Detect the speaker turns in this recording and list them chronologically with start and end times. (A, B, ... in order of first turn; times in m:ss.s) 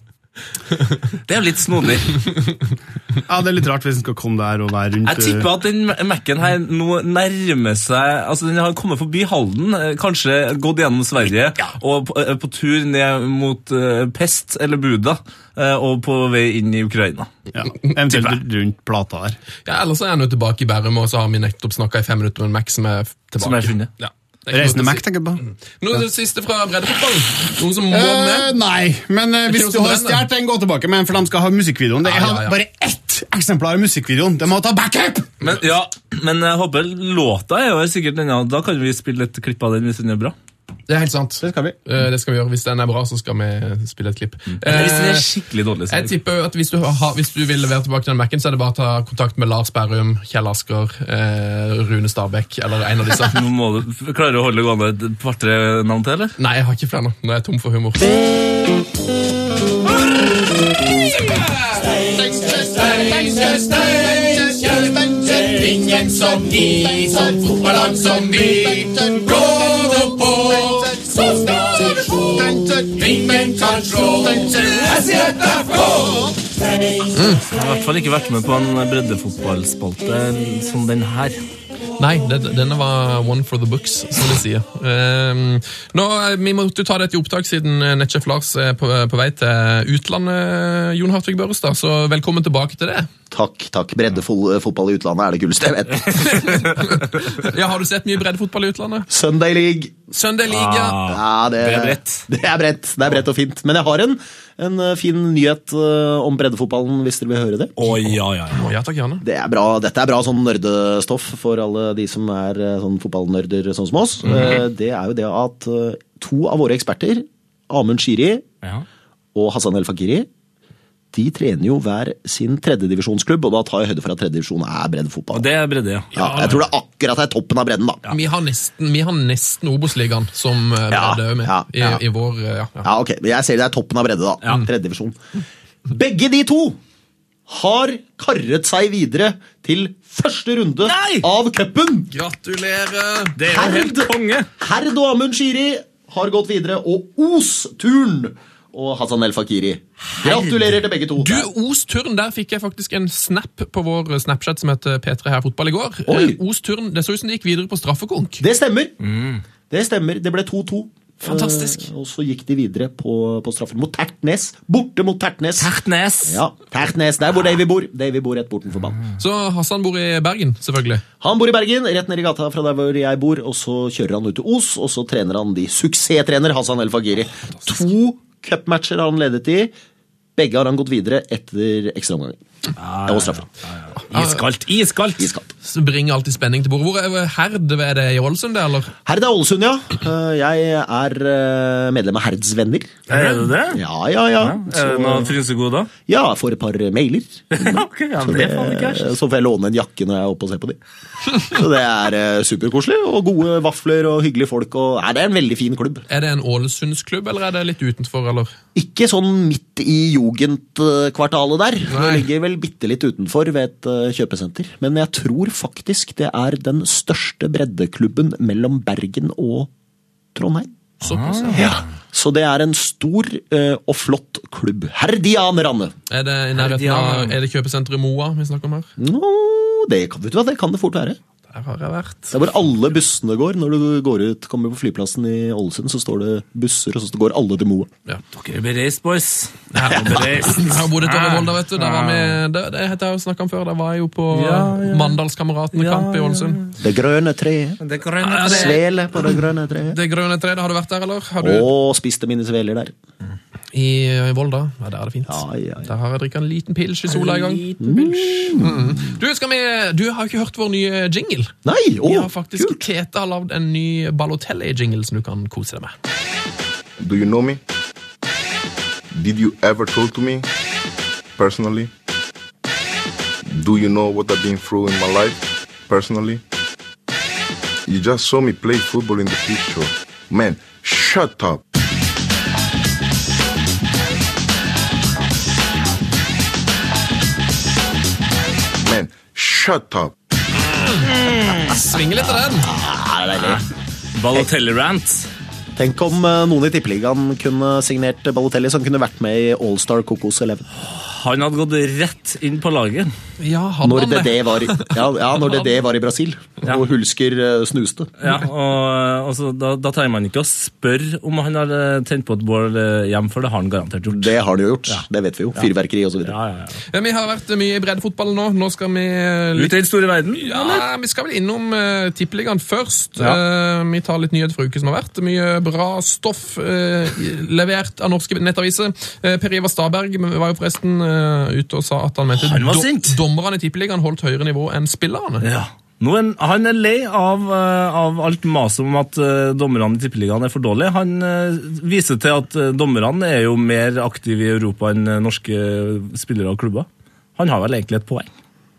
0:01.3-0:02.2 A
0:03.3-0:05.5 B
0:05.0-0:17.3 A
0:17.5-0:19.4 B
0:19.6-0:28.5 C
0:23.4-0:23.9 A
0:24.5-0:25.4 B
0:27.9-0:35.5 B
0:29.5-0:30.2 C
0:32.0-0:32.6 C
0:35.4-0:40.3 A
0:40.9-0:45.3 C
0:41.4-0:41.8 B
0:44.5-0:46.1 A
0:45.9-0:53.4 C
0:53.3-0:56.3 A
0:56.4-0:58.1 C
1:01.1-1:02.0 C
1:02.0-1:16.4 B
1:02.8-1:04.7 C
1:06.2-1:12.4 C
1:13.0-1:15.9 C
1:17.1-1:17.4 C
1:17.5-1:21.4 A
1:22.0-1:33.1 C
1:33.3-1:36.6 D
1:36.3-1:39.1 C
1:39.1-1:39.9 D
1:40.1-1:41.0 C
1:40.5-1:42.2 A
1:41.0-1:47.7 D
1:47.8-1:48.7 A
1:48.5-1:49.2 C
1:49.2-1:58.4 D
1:54.2-1:54.6 A
1:59.3-2:00.3 D
2:01.1-2:05.5 D
2:05.3-2:06.6 A
2:06.1-2:08.0 D
2:08.1-2:12.9 C
2:10.9-2:12.0 D
2:12.8-2:15.2 D
2:15.8-2:16.8 D
2:17.5-2:22.1 D
2:20.8-2:21.3 A
2:22.1-2:23.4 C
2:23.4-2:24.5 A
2:23.4-2:31.5 D
2:30.2-2:30.8 A
2:31.2-2:38.4 C
2:36.1-2:36.4 D
2:38.4-2:38.9 D
2:39.0-2:39.4 A
2:39.7-2:45.7 D
2:41.2-2:41.8 C
2:45.6-2:46.4 A
2:46.2-2:49.0 D
2:49.2-2:51.0 C
2:51.2-2:59.7 D
3:00.4-3:02.4 D
3:02.8-3:05.3 A
3:03.0-3:03.4 D
3:04.1-3:04.4 C
3:05.2-3:05.5 D
3:05.6-3:08.9 C
3:09.0-3:13.0 D
3:13.1-3:13.8 A
3:13.7-3:15.3 D
3:14.4-3:15.9 A
3:16.1-3:20.8 D
3:17.5-3:19.1 A
3:21.3-3:26.0 D
3:26.1-3:28.5 C
3:28.8-3:39.7 D
3:31.9-3:32.3 C
3:40.3-3:40.7 D
3:41.0-3:41.8 C
3:41.0-3:41.7 A
3:41.5-3:45.9 D
3:46.1-3:48.9 C
3:46.6-3:47.3 A
3:49.0-3:51.2 D
3:51.5-3:52.3 C
3:52.3-3:57.9 D
3:58.3-4:02.4 A
3:59.7-4:06.6 C
4:04.3-4:05.2 A
4:05.7-4:06.7 A
4:06.8-4:07.8 D
4:07.8-4:08.8 A
4:08.3-4:08.8 C
4:08.4-4:10.0 D
4:09.9-4:11.7 C
4:11.4-4:12.9 D
4:13.7-4:17.6 C
4:15.2-4:15.9 D
4:17.1-4:18.6 A
4:17.8-4:19.1 D
4:18.5-4:25.9 C
4:21.6-4:22.8 D
4:27.0-4:27.6 E
4:29.1-4:30.5 E
4:31.4-4:31.9 E
4:33.4-4:36.4 E
4:37.9-4:41.6 E
4:48.8-4:50.1 E
4:50.7-4:52.7 C
4:51.0-4:51.8 A
4:52.2-4:53.6 D
4:53.4-4:55.3 A
4:55.8-5:00.6 D
5:00.8-5:03.1 A
5:03.4-5:05.0 C
5:03.8-5:08.1 D
5:08.2-5:14.3 A
5:14.1-5:16.4 D
5:16.2-5:16.8 A
5:16.9-5:19.7 C
5:19.6-5:20.8 A
5:20.4-5:35.4 C
5:32.4-5:33.2 A
5:35.4-5:48.3 A